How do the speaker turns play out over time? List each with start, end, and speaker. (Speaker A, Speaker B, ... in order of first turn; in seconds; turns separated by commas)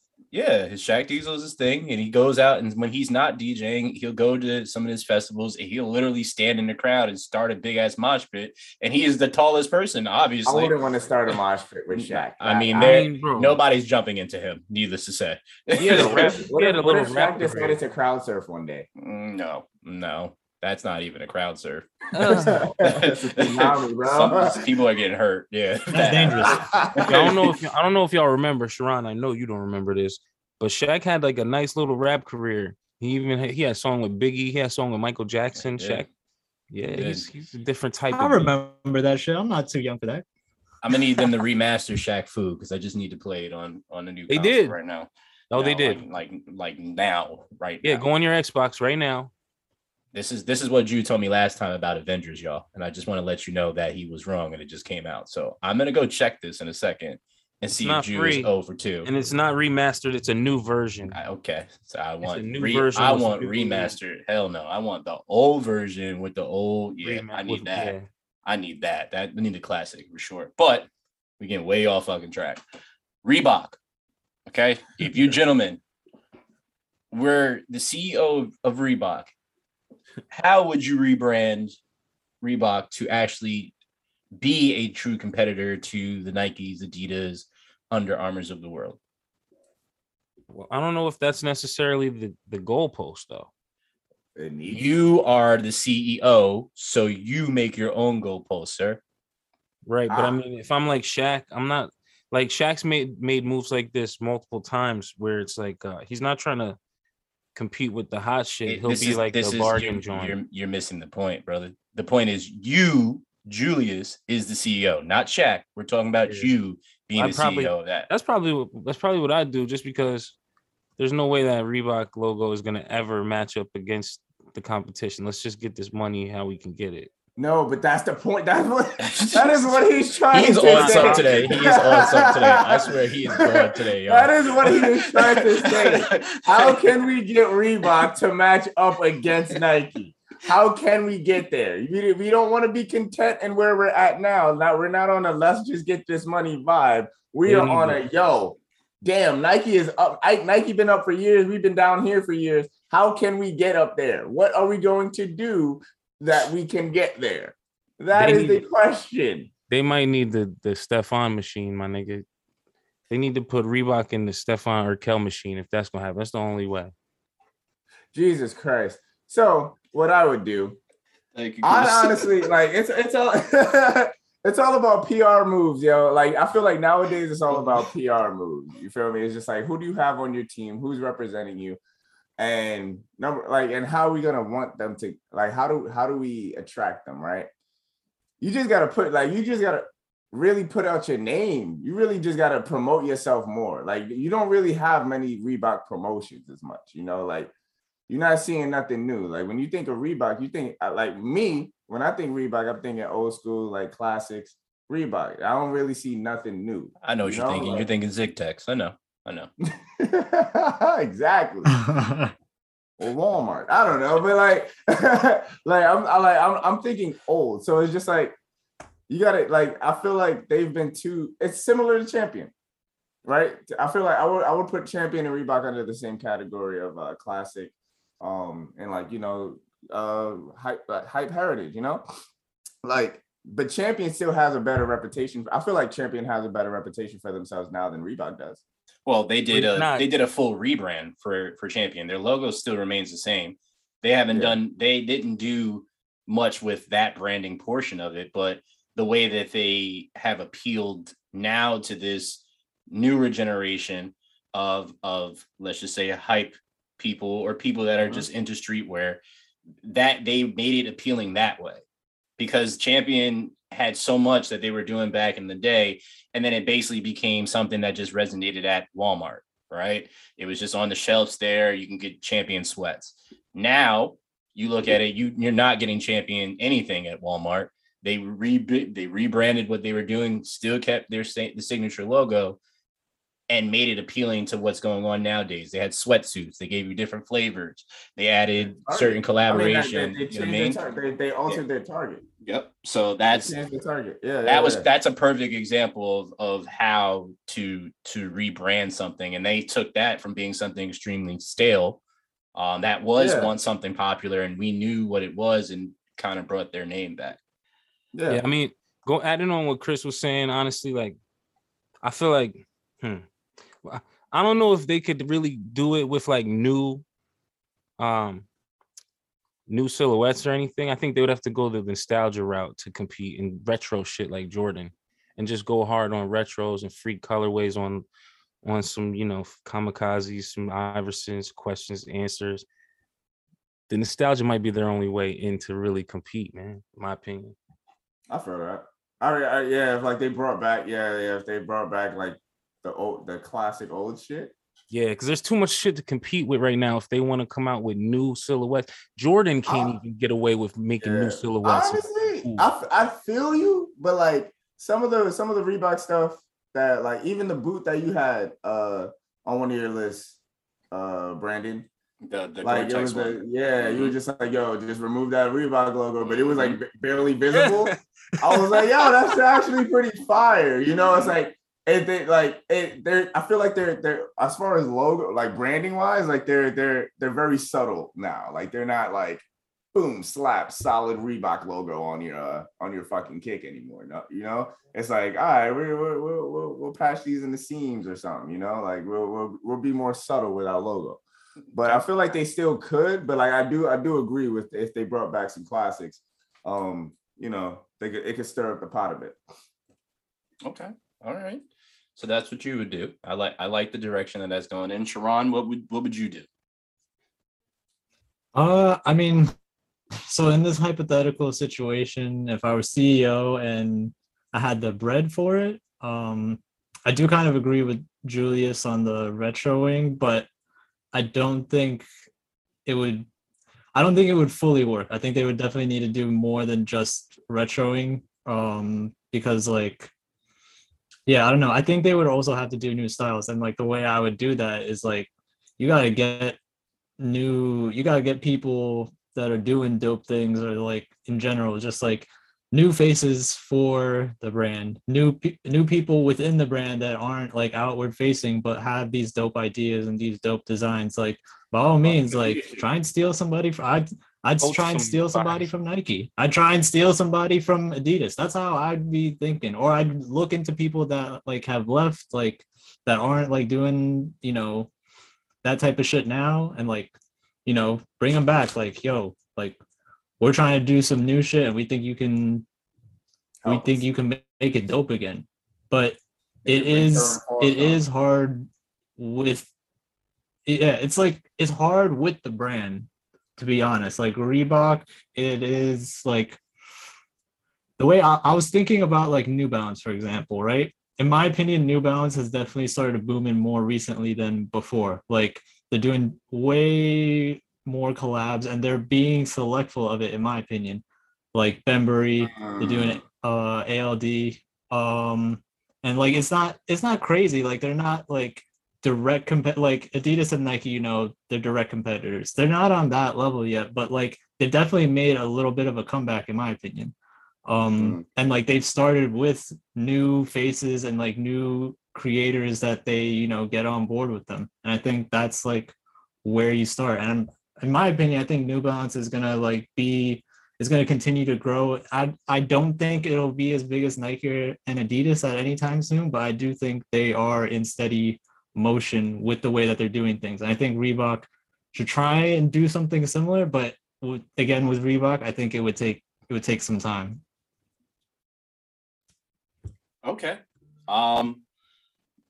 Speaker A: 0.3-10.8, Speaker B: 10.4-13.0, Speaker A: 11.9-16.5, Speaker C: 12.8-13.6, Speaker C: 15.8-17.8, Speaker B: 15.8-18.9, Speaker A: 19.0-27.5, Speaker C: 22.1-22.7, Speaker B: 22.2-24.6, Speaker D: 25.9-26.7, Speaker B: 26.4-27.4, Speaker C: 27.1-36.1, Speaker A: 35.6-36.0, Speaker C: 36.7-38.5, Speaker A: 36.9-37.3, Speaker D: 38.1-40.2, Speaker A: 40.8-48.0, Speaker C: 44.3-44.8, Speaker C: 45.5-46.0, Speaker C: 47.8-49.3, Speaker A: 50.1-59.1, Speaker C: 57.8-58.5, Speaker C: 59.0-61.2, Speaker A: 61.1-72.6, Speaker C: 62.3-64.0, Speaker C: 67.0-68.1, Speaker A: 73.2-73.8, Speaker A: 74.5-75.8, Speaker A: 77.1-79.3, Speaker A: 80.3-81.8, Speaker A: 82.4-83.7, Speaker A: 84.4-89.0, Speaker C: 90.5-93.5, Speaker B: 94.4-94.9, Speaker A: 94.7-99.0, Speaker C: 99.9-106.8, Speaker B: 100.1-100.4, Speaker C: 107.5-110.4, Speaker A: 108.7-118.1, Speaker C: 117.2-120.4, Speaker C: 121.0-127.1, Speaker B: 127.4-159.5, Speaker A: 129.0-129.8, Speaker A: 130.3-136.8, Speaker C: 130.6-131.7, Speaker C: 147.5-148.0, Speaker C: 158.2-158.6, Speaker C: 159.7-162.2, Speaker C: 163.1-166.9, Speaker B: 168.1-170.8, Speaker A: 171.3-172.5, Speaker B: 171.6-181.8, Speaker B: 182.4-187.5, Speaker B: 188.4-197.5, Speaker B: 198.1-207.9, Speaker A: 207.0-209.5, Speaker B: 209.8-211.7, Speaker D: 211.7-212.3, Speaker B: 213.0-218.4, Speaker B: 219.1-222.5, Speaker B: 223.2-232.0, Speaker B: 232.8-238.6, Speaker A: 239.1-259.2, Speaker C: 239.5-240.1, Speaker B: 244.3-244.6, Speaker A: 259.8-261.8, Speaker A: 262.4-282.6, Speaker A: 283.5-290.8, Speaker B: 288.6-292.2, Speaker A: 292.4-293.6, Speaker B: 293.3-294.9, Speaker A: 294.4-302.0, Speaker A: 302.6-307.4, Speaker B: 303.2-303.5, Speaker B: 308.1-308.4, Speaker C: 308.3-311.2, Speaker C: 312.0-313.2, Speaker C: 313.8-317.0, Speaker C: 318.0-318.5, Speaker C: 319.7-328.1, Speaker C: 328.6-332.7, Speaker C: 333.9-337.6, Speaker B: 338.3-344.5, Speaker C: 344.9-352.7, Speaker B: 349.7-350.0, Speaker B: 351.0-360.4, Speaker B: 360.9-361.9, Speaker A: 362.2-364.1, Speaker B: 362.6-391.2, Speaker A: 366.2-366.8, Speaker C: 367.6-368.8, Speaker B: 391.7-399.4, Speaker A: 400.6-401.6, Speaker A: 402.2-406.5, Speaker D: 408.6-409.5, Speaker D: 410.3-420.5, Speaker D: 421.1-422.1, Speaker D: 422.9-423.3, Speaker D: 423.9-430.1, Speaker D: 431.3-436.6, Speaker D: 437.2-464.9, Speaker C: 454.6-455.7, Speaker D: 465.6-467.1, Speaker D: 467.7-469.8, Speaker D: 470.4-472.7, Speaker B: 473.6-474.0, Speaker D: 473.7-479.7, Speaker B: 476.6-478.0, Speaker D: 480.7-486.6, Speaker D: 488.0-501.0, Speaker D: 501.5-517.1, Speaker B: 502.5-503.2, Speaker D: 517.6-547.4, Speaker A: 550.2-551.6